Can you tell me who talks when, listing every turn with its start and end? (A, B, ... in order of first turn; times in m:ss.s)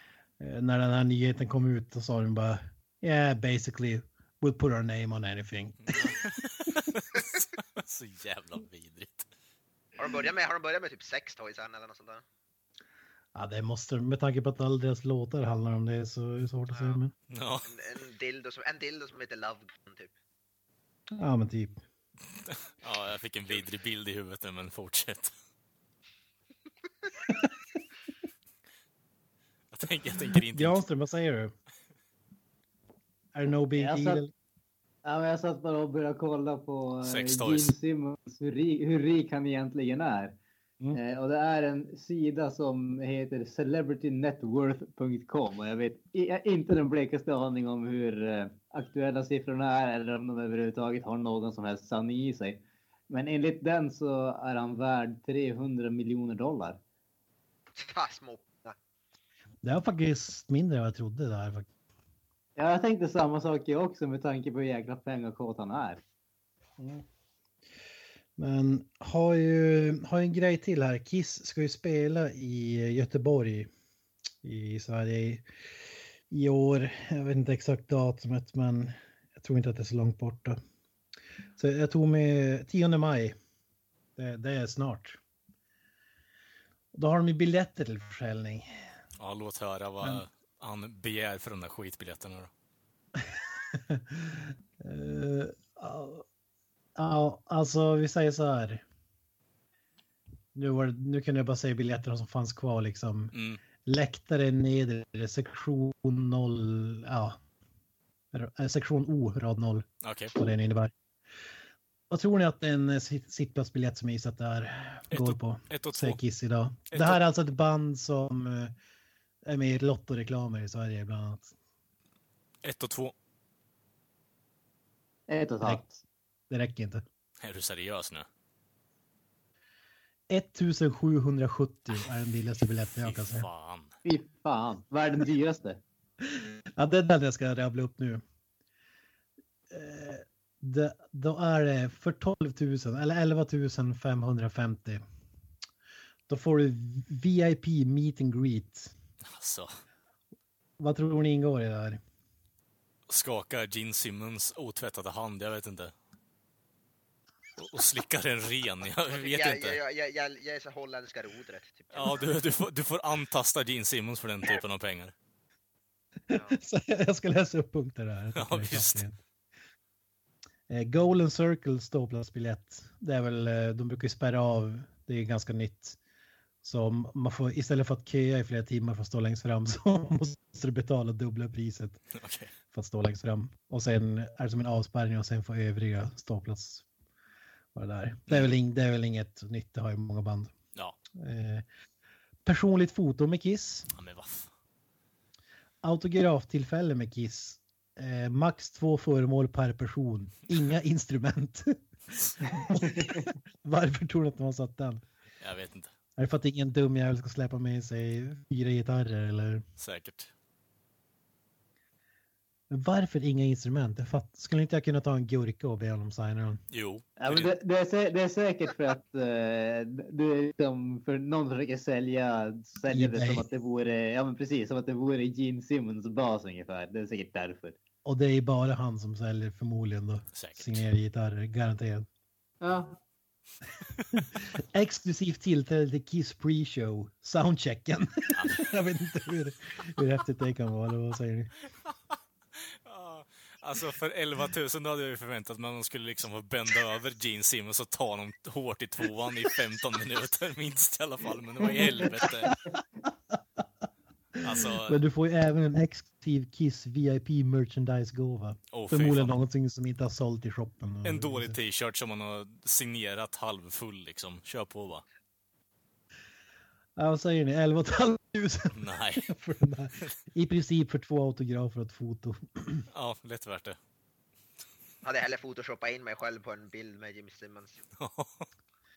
0:00.4-0:06.1 A
0:05.9-0:09.3 B
0:10.0-0:12.2 C
0:13.4-0:17.1 A
0:17.3-0:17.7 B
0:17.7-0:20.1 C
0:21.1-0:21.8 A
0:22.8-0:25.3 B
0:29.7-0:30.8 B
0:30.4-0:31.5 A
0:33.3-0:34.3 A
0:33.8-0:34.2 D
0:35.0-0:40.4 D
0:37.0-0:37.7 B
0:40.9-0:56.8 D
0:57.7-0:58.8 C
0:59.6-1:01.7 A
1:02.6-1:06.0 D
1:06.8-1:07.0 A
1:08.4-1:13.7 A
1:14.4-1:15.4 A
1:16.3-1:20.6 A
1:21.6-1:23.4 A
1:24.2-1:25.2 A
1:26.9-1:28.7 A
1:29.2-1:32.5 B
1:33.2-1:36.2 A
1:37.0-1:38.8 A
1:40.6-1:47.4 A
1:43.3-1:43.6 B
1:48.3-1:50.9 A
1:50.0-1:50.3 B
1:52.1-1:58.7 A
1:55.1-1:56.2 B
1:56.9-1:57.2 B
1:59.4-2:01.6 A
2:02.6-2:03.1 B
2:05.3-2:06.0 D
2:06.5-2:07.0 A
2:07.4-2:08.3 B
2:10.3-2:13.5 A
2:13.0-2:13.9 B
2:14.0-2:15.8 D
2:16.2-2:18.2 A
2:19.7-2:25.0 A
2:26.3-2:28.9 A
2:29.3-2:29.7 B
2:30.8-2:32.0 A
2:33.1-2:35.9 B
2:37.6-2:39.8 B
2:39.1-2:42.4 C
2:41.9-2:45.1 B
2:46.3-2:49.2 A
2:46.3-2:46.6 C
2:48.4-2:49.0 B
2:50.7-2:56.0 A
2:56.6-3:02.0 A
3:02.2-3:02.5 B
3:02.7-3:06.8 A
3:07.7-3:10.5 A
3:11.2-3:11.6 A
3:12.4-3:13.9 A
3:13.9-3:14.5 B
3:15.8-3:21.8 A
3:22.5-3:23.3 D
3:22.6-3:25.0 A
3:25.4-3:25.9 B
3:26.2-3:29.6 A
3:29.8-3:30.3 B
3:32.7-3:36.6 A
3:36.7-3:37.5 B
3:37.2-3:47.8 D
3:42.9-3:43.4 A
3:48.0-3:52.1 A
3:50.4-3:50.8 B
3:52.6-3:53.0 D
3:54.4-4:01.5 A
3:58.3-3:58.7 B
4:02.9-4:12.5 B
4:14.4-4:15.0 B
4:14.5-4:21.6 A
4:18.7-4:19.4 B
4:21.0-4:25.0 B
4:27.0-4:32.9 A
4:28.7-4:29.3 B
4:32.9-4:33.8 B
4:35.0-4:37.8 C
4:38.0-4:38.4 B